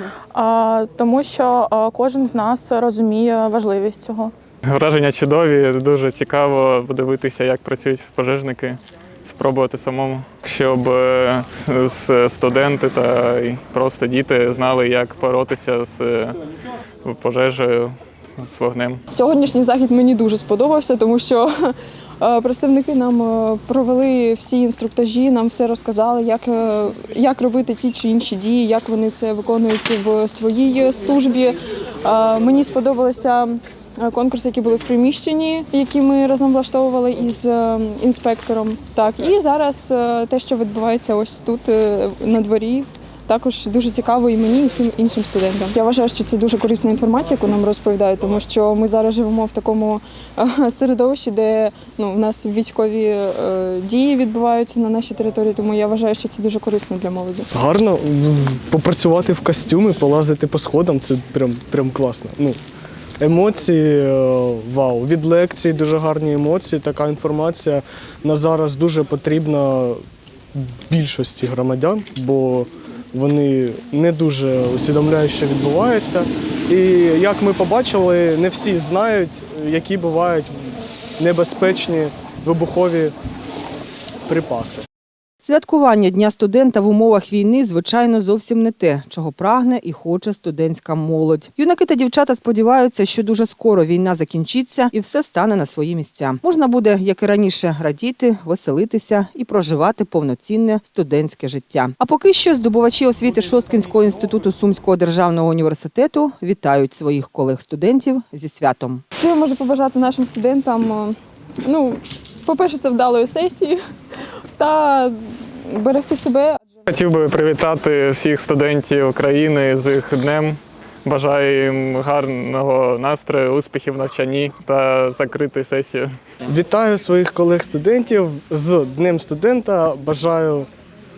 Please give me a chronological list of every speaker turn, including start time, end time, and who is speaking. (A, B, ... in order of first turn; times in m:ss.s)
0:00.3-0:04.3 A
0:04.7-0:16.4 B
0:17.0-0:19.0 B
0:19.1-0:57.5 C
0:57.5-1:02.6 D
1:03.2-1:10.0 D
1:10.5-1:20.5 D
1:21.2-1:23.1 D
1:24.3-1:24.8 D
1:25.4-1:49.0 E
1:49.1-1:53.8 C
1:54.6-1:56.8 C
1:56.9-2:06.1 B
2:06.4-2:10.7 D